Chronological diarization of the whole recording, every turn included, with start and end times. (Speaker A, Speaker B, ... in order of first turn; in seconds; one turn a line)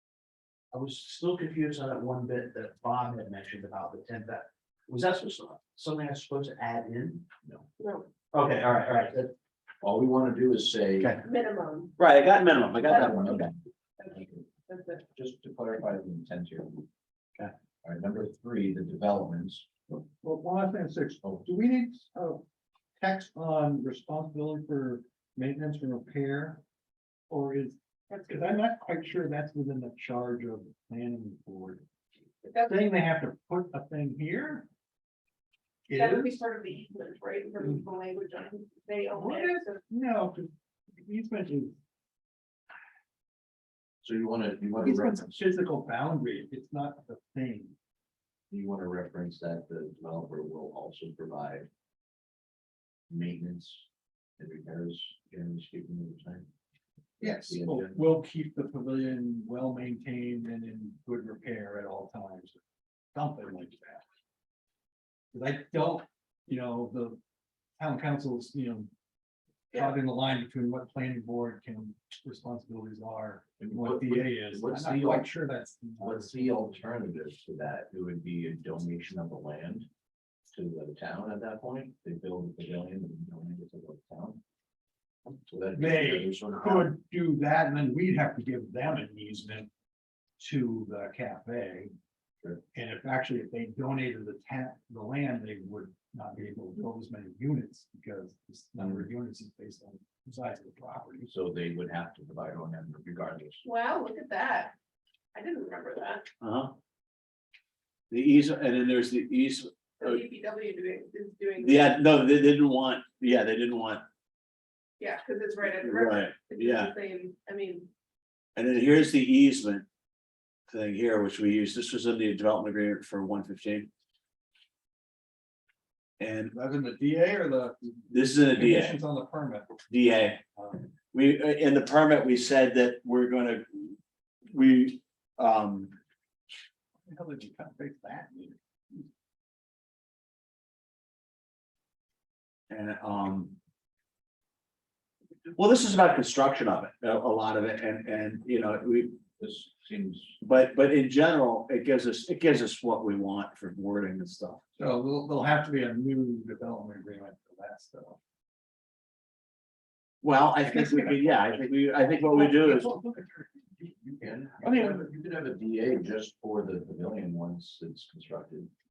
Speaker A: 0.7-7.3
Speaker B: 7.8-8.1
Speaker A: 8.3-9.3
Speaker C: 9.8-11.1
Speaker B: 11.2-12.0
Speaker A: 12.0-13.5
Speaker B: 12.8-13.2
Speaker C: 12.8-13.5
Speaker B: 14.0-15.0
Speaker C: 15.1-16.9
Speaker C: 17.8-19.6
Speaker D: 19.9-22.4
Speaker D: 23.0-26.6
Speaker D: 27.3-31.8
Speaker B: 28.1-28.5
Speaker B: 32.4-32.8
Speaker D: 32.6-34.7
Speaker D: 35.9-36.4
Speaker B: 35.9-39.8
Speaker D: 39.1-41.8
Speaker C: 44.0-45.4
Speaker D: 44.8-47.7
Speaker C: 48.5-51.7
Speaker C: 53.1-53.8
Speaker C: 54.4-56.5
Speaker C: 57.2-58.0
Speaker D: 57.2-62.6
Speaker D: 63.1-64.0
Speaker D: 65.3-67.2
Speaker D: 67.8-68.9
Speaker D: 69.7-76.8
Speaker C: 73.6-75.3
Speaker C: 76.0-79.9
Speaker C: 80.5-84.4
Speaker C: 85.3-86.9
Speaker D: 85.7-89.7
Speaker D: 90.4-91.9
Speaker D: 92.7-101.3
Speaker C: 98.8-99.1
Speaker C: 101.3-103.6
Speaker B: 103.6-104.7
Speaker B: 105.3-106.3
Speaker A: 106.4-106.7
Speaker A: 108.1-110.2
Speaker B: 110.0-112.0
Speaker A: 111.6-114.0
Speaker B: 115.0-117.9
Speaker A: 115.8-116.9
Speaker A: 118.5-119.8
Speaker A: 120.7-123.9
Speaker A: 126.2-126.5
Speaker D: 126.5-129.8
Speaker A: 128.1-128.9
Speaker A: 129.9-130.4
Speaker D: 130.6-130.8
Speaker A: 131.1-134.0
Speaker A: 134.5-135.9
Speaker D: 137.1-139.0
Speaker A: 142.7-143.6
Speaker A: 145.5-149.2
Speaker C: 149.4-150.4
Speaker A: 150.4-154.6
Speaker D: 154.8-158.2
Speaker A: 160.2-162.9
Speaker D: 160.6-161.7
Speaker D: 162.2-163.9
Speaker C: 164.0-168.7